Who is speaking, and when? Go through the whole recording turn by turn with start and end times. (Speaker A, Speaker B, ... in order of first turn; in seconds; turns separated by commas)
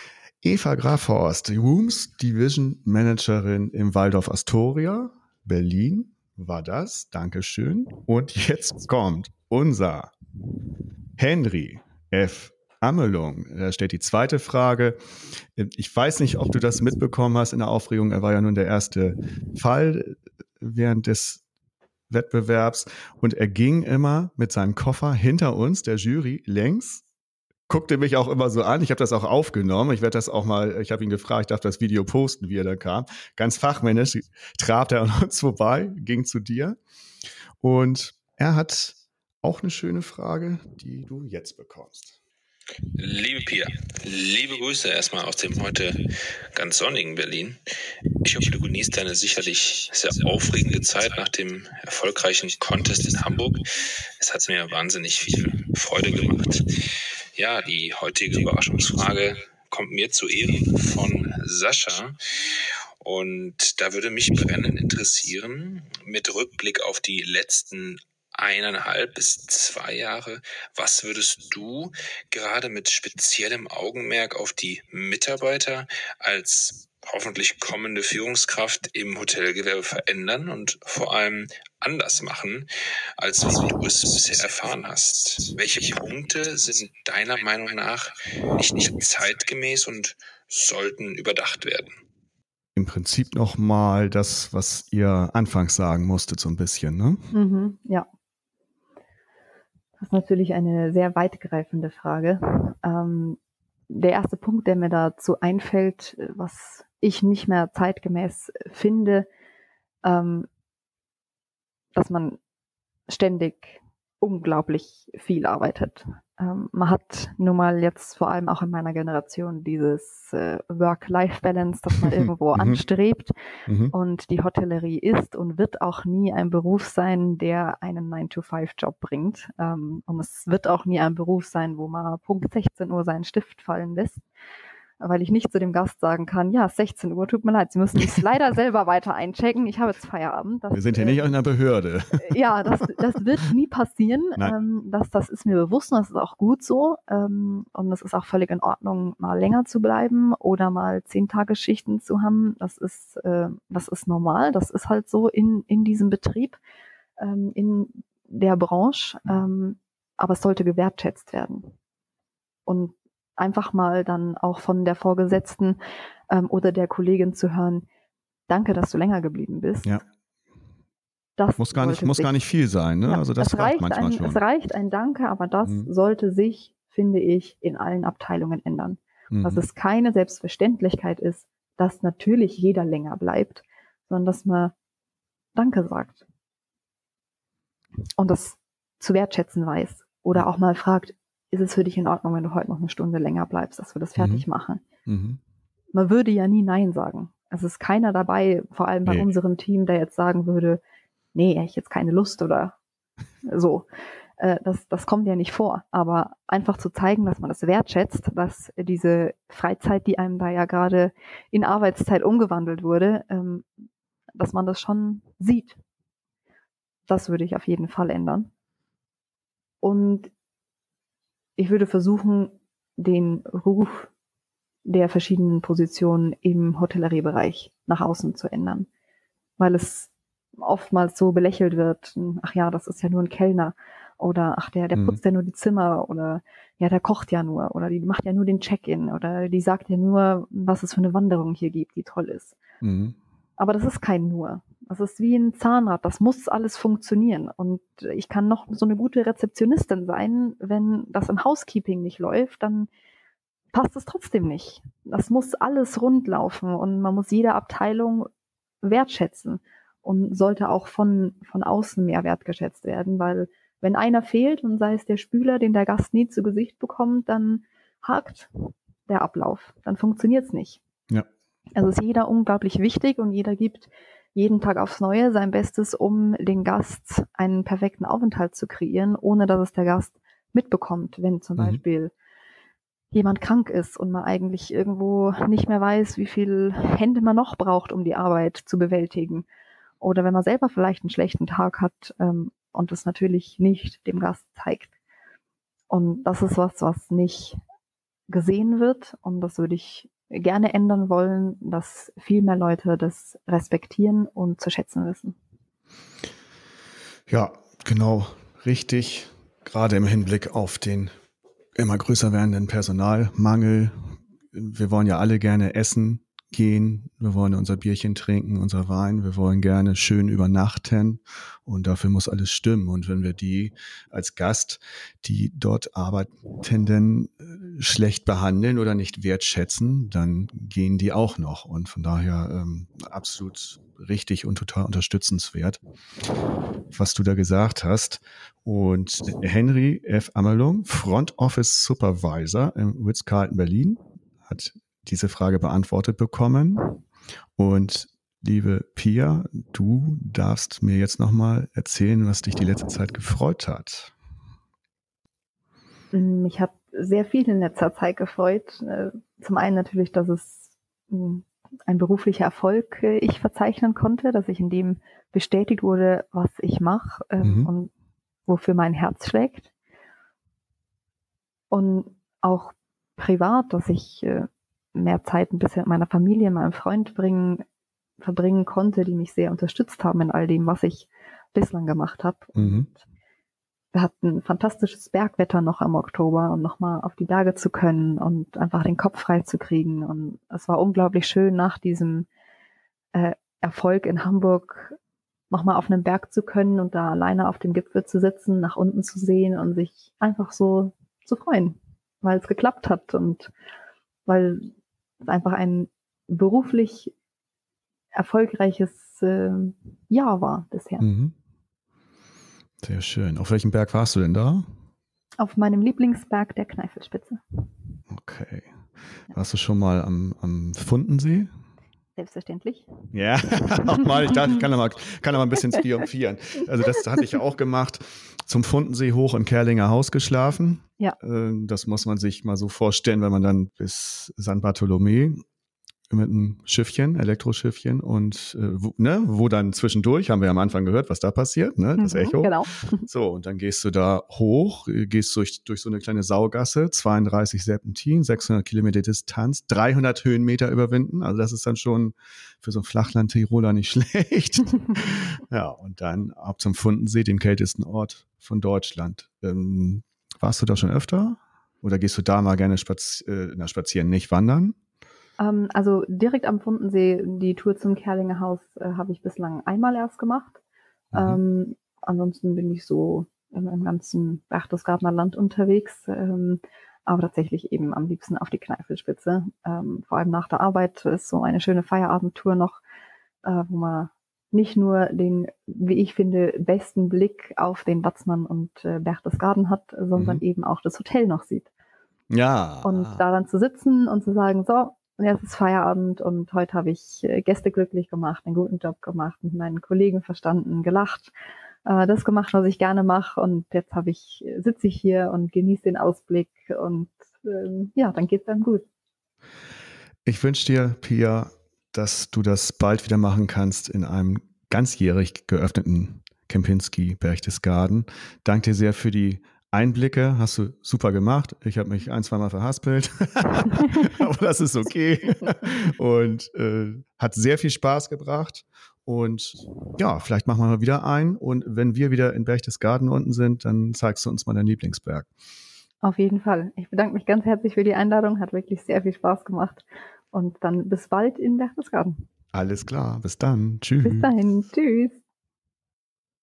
Speaker A: 0.4-10.1, Speaker A: 11.2-15.0, Speaker A: 15.5-21.4, Speaker A: 22.1-27.0, Speaker A: 27.7-36.8, Speaker A: 37.6-42.2, Speaker B: 43.0-46.0, Speaker B: 46.5-47.6, Speaker B: 48.2-53.7, Speaker B: 54.2-56.6, Speaker B: 57.4-62.2, Speaker B: 63.0-92.0, Speaker A: 92.8-97.2, Speaker C: 97.3-98.1, Speaker C: 100.0-103.4, Speaker C: 103.9-109.3, Speaker C: 110.0-110.5, Speaker C: 112.0-112.4, Speaker C: 113.1-123.3, Speaker A: 122.5-122.8, Speaker A: 123.7-123.9, Speaker C: 123.9-134.2, Speaker C: 135.0-141.3, Speaker A: 140.7-142.4, Speaker C: 142.2-156.6, Speaker C: 157.2-161.8, Speaker C: 162.7-167.9, Speaker C: 168.5-169.9, Speaker C: 171.4-172.3, Speaker A: 171.6-174.4, Speaker C: 173.1-184.7, Speaker A: 179.3-179.6, Speaker C: 185.6-186.2, Speaker C: 188.2-194.8, Speaker A: 194.2-194.4, Speaker A: 195.1-195.4, Speaker C: 195.9-200.8, Speaker C: 201.3-202.8, Speaker C: 203.5-203.9, Speaker C: 204.4-213.7, Speaker C: 214.4-215.8, Speaker C: 217.1-218.5, Speaker C: 219.8-220.3, Speaker C: 221.6-224.1, Speaker C: 224.8-228.9, Speaker C: 229.6-242.6, Speaker A: 242.8-243.2, Speaker C: 243.6-252.9, Speaker C: 253.7-258.3, Speaker C: 258.8-270.8, Speaker C: 271.8-282.1, Speaker C: 283.1-289.5, Speaker C: 290.0-294.9, Speaker C: 295.9-297.6, Speaker C: 298.3-305.4, Speaker A: 307.3-311.1, Speaker A: 311.8-313.9, Speaker A: 314.5-335.8, Speaker A: 336.9-347.0, Speaker A: 347.6-354.1, Speaker C: 356.1-367.9, Speaker A: 367.4-367.7, Speaker C: 368.5-369.7, Speaker C: 371.7-377.6, Speaker C: 378.2-383.0, Speaker A: 382.6-382.9, Speaker C: 383.9-392.3, Speaker C: 393.1-395.0, Speaker C: 395.5-403.5, Speaker C: 404.3-404.7, Speaker C: 405.2-407.1, Speaker C: 408.1-411.1, Speaker A: 411.0-411.4, Speaker A: 412.8-414.7, Speaker C: 415.4-417.4, Speaker A: 418.1-418.7, Speaker A: 419.3-421.5, Speaker C: 422.2-422.9, Speaker A: 423.1-435.4, Speaker C: 423.9-424.6, Speaker A: 436.1-464.8, Speaker C: 442.0-443.1, Speaker C: 465.4-470.6, Speaker A: 471.1-471.4, Speaker C: 471.1-482.8, Speaker C: 483.4-491.7, Speaker A: 490.2-490.4, Speaker A: 492.3-493.2, Speaker C: 492.8-501.3, Speaker C: 501.9-508.9, Speaker A: 510.3-535.3, Speaker C: 536.0-542.3, Speaker A: 542.5-544.3, Speaker C: 544.0-545.2